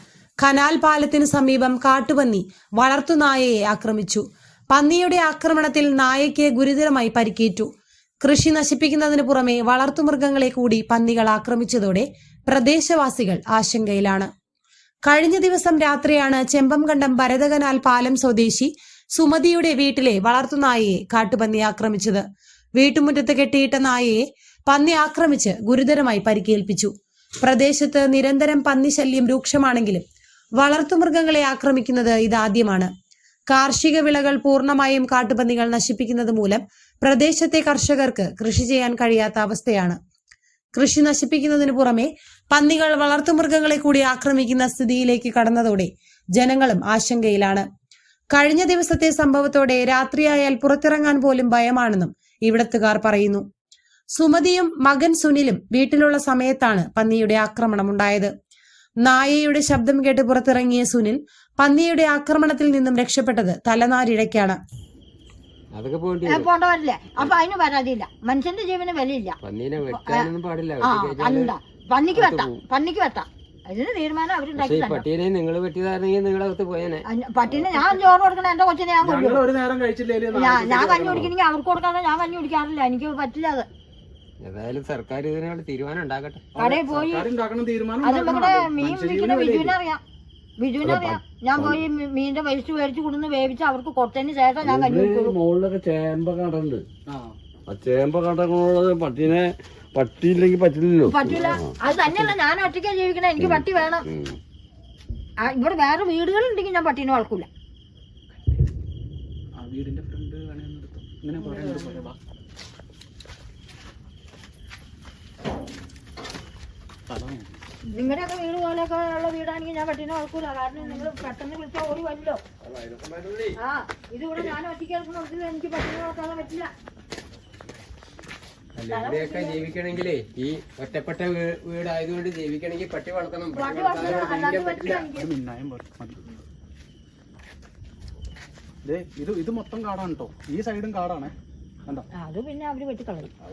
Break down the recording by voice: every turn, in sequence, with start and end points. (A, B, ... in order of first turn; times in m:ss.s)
0:00.4-0:07.7 A
0:08.2-0:14.3 A
0:15.0-0:22.2 A
0:22.8-0:30.0 A
0:30.6-0:32.9 A
0:33.5-0:40.0 A
0:40.7-0:47.6 A
0:48.3-0:53.4 A
0:54.1-0:58.3 A
0:59.0-1:04.6 A
1:05.7-1:06.5 B
1:06.2-1:10.3 C
1:09.4-1:11.5 B
1:10.8-1:15.0 C
1:12.1-1:12.5 B
1:14.6-1:17.0 B
1:17.1-1:19.4 C
1:19.0-1:21.3 D
1:20.3-1:23.7 C
1:24.4-1:26.4 B
1:26.5-1:29.8 D
1:26.6-1:27.3 C
1:28.0-1:30.0 C
1:30.6-1:35.4 C
1:30.8-1:31.8 E
1:34.6-1:36.8 E
1:37.1-1:37.4 D
1:37.7-1:42.3 E
1:41.0-1:44.0 C
1:43.4-1:44.4 E
1:45.4-1:47.5 C
1:49.6-1:52.2 D
1:51.4-1:52.0 C
1:57.1-1:57.6 D
1:57.9-2:02.4 C
2:02.7-2:03.5 B
2:03.6-2:06.7 C
2:08.8-2:15.1 B
2:08.9-2:09.7 C
2:13.5-2:15.3 C
2:15.0-2:16.2 D
2:18.8-2:21.3 D
2:22.2-2:23.3 C